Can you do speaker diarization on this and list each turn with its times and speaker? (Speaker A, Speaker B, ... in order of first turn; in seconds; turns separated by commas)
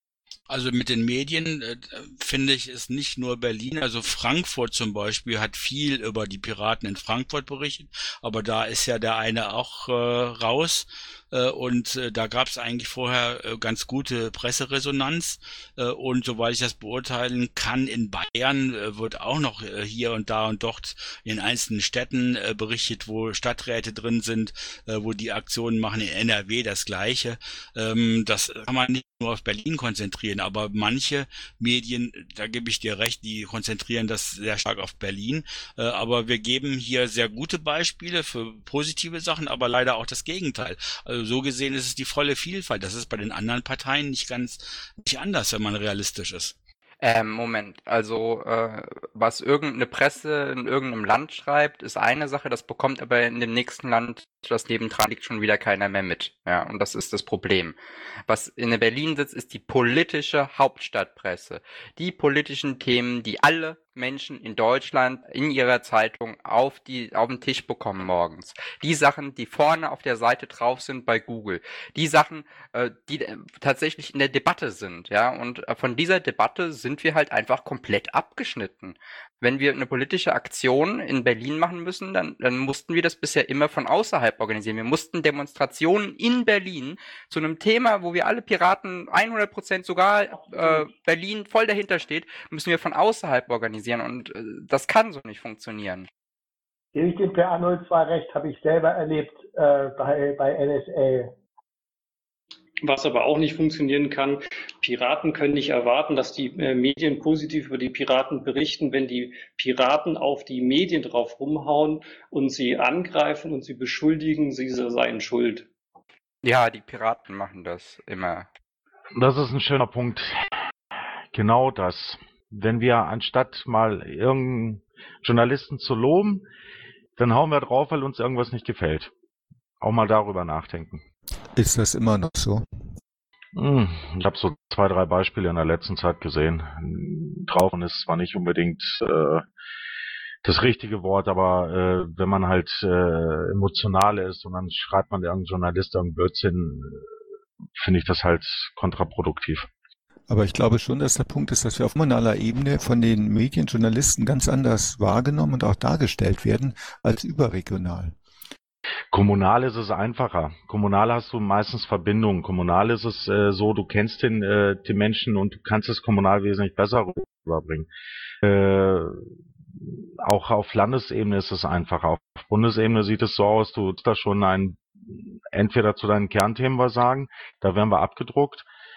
Speaker A: 0.5-46.5, Speaker B: 47.0-57.8, Speaker B: 58.3-96.1, Speaker C: 96.9-101.3, Speaker D: 102.8-115.7, Speaker B: 116.4-118.5, Speaker E: 119.1-120.5, Speaker E: 121.3-126.5, Speaker E: 127.2-129.1, Speaker E: 129.8-131.0, Speaker F: 131.6-132.6, Speaker E: 133.6-139.4, Speaker E: 140.4-147.1, Speaker E: 147.8-149.7, Speaker F: 150.3-158.2, Speaker E: 159.1-167.9, Speaker E: 168.4-169.2, Speaker E: 170.2-178.7